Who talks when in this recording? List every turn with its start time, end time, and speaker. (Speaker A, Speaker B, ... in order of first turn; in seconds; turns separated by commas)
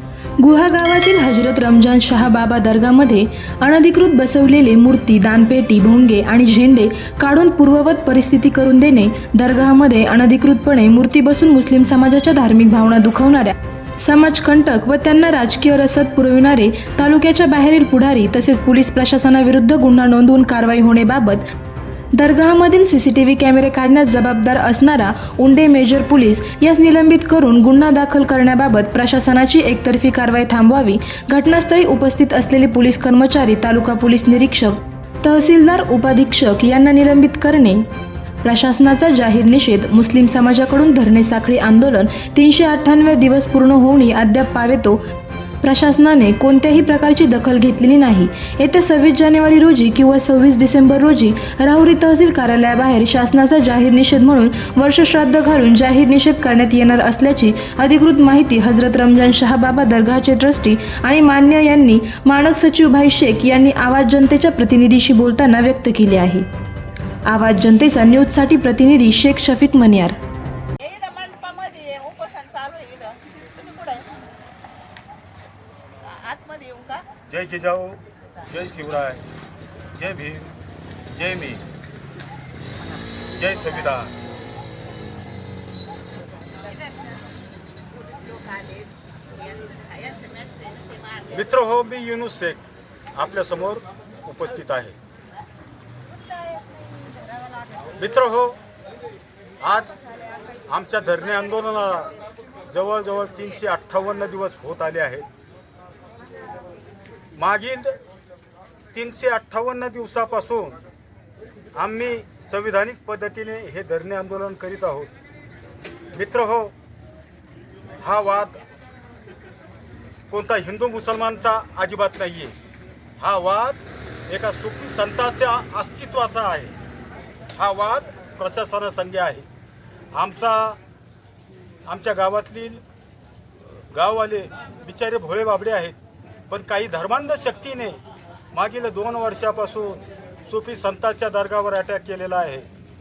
Speaker A: 0.4-21.4, Speaker A: 22.1-37.8, Speaker A: 38.4-45.0, Speaker A: 45.6-66.5, Speaker A: 67.3-70.2, Speaker B: 70.8-74.1, Speaker B: 76.1-77.0, Speaker C: 77.3-79.2, Speaker C: 80.0-80.5, Speaker C: 81.1-81.6, Speaker C: 83.3-84.1, Speaker B: 86.8-87.1, Speaker B: 87.9-91.3, Speaker C: 91.3-92.6, Speaker C: 93.1-95.0, Speaker B: 96.2-97.8, Speaker C: 98.0-98.6, Speaker C: 99.6-100.0, Speaker C: 100.7-102.2, Speaker C: 102.7-105.2, Speaker C: 107.4-108.0, Speaker C: 108.9-110.8, Speaker C: 111.8-115.1, Speaker C: 116.1-116.7, Speaker C: 118.0-118.6, Speaker C: 120.3-122.5, Speaker C: 123.2-126.8, Speaker C: 127.6-129.4, Speaker C: 130.2-130.8, Speaker C: 131.9-132.8, Speaker C: 133.9-136.0, Speaker C: 136.5-138.0, Speaker C: 138.5-142.7